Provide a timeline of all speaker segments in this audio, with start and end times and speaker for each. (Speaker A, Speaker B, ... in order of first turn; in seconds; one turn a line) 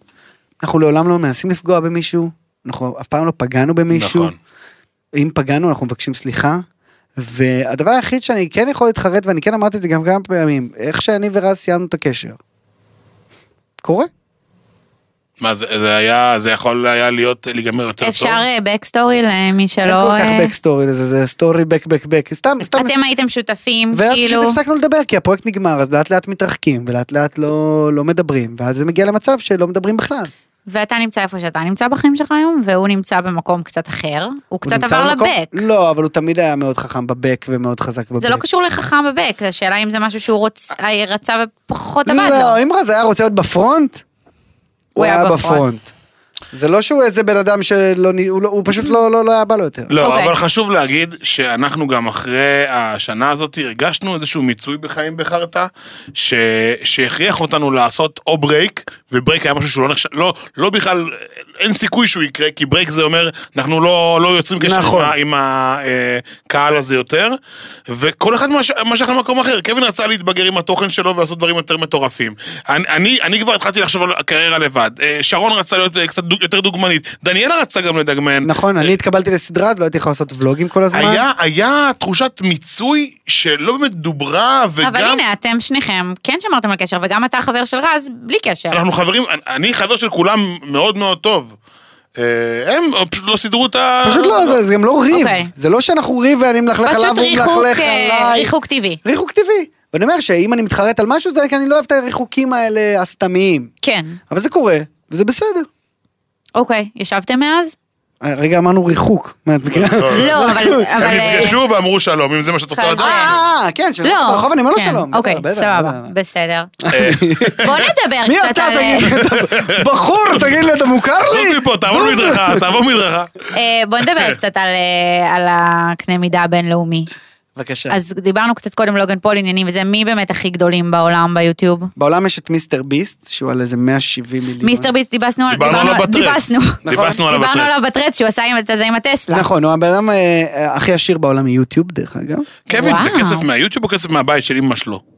Speaker A: 0.6-4.3
Speaker B: 3.9-4.3
Speaker A: 5.2-6.6
Speaker A: 7.2-12.4
Speaker A: 13.8-14.1
Speaker B: 15.4-18.4
Speaker C: 18.0-20.5
Speaker A: 19.8-22.9
Speaker C: 22.6-24.6
Speaker A: 23.9-30.3
Speaker C: 30.7-35.6
Speaker A: 34.6-38.4
Speaker C: 38.2-42.6
Speaker A: 42.1-44.0
Speaker A: 45.0-45.9
Speaker C: 45.0-45.7
Speaker A: 46.5-49.9
Speaker B: 49.9-67.4
Speaker C: 50.0-50.3
Speaker A: 64.6-65.1
Speaker B: 67.9-78.9
Speaker A: 78.4-81.2
Speaker B: 80.9-85.2
Speaker C: 84.8-88.8
Speaker B: 88.7-91.6
Speaker B: 92.2-94.6
Speaker A: 94.0-98.5
Speaker C: 95.1-95.5
Speaker C: 96.8-99.0
Speaker A: 99.0-103.7
Speaker C: 103.8-104.2
Speaker A: 104.3-105.7
Speaker C: 106.6-107.8
Speaker A: 108.2-111.5
Speaker B: 109.7-113.4
Speaker C: 110.1-111.6
Speaker C: 112.7-113.3
Speaker A: 113.0-116.1
Speaker C: 114.0-116.7
Speaker A: 116.8-117.7
Speaker B: 116.9-117.9
Speaker C: 117.6-119.1
Speaker A: 118.2-122.7
Speaker B: 119.2-119.8
Speaker B: 121.2-123.5
Speaker C: 123.5-127.1
Speaker A: 127.6-128.0
Speaker C: 127.9-131.9
Speaker A: 132.0-134.9
Speaker C: 134.6-139.5
Speaker B: 135.5-137.8
Speaker A: 136.8-137.2
Speaker A: 139.3-143.0
Speaker B: 142.7-145.0
Speaker C: 142.7-143.4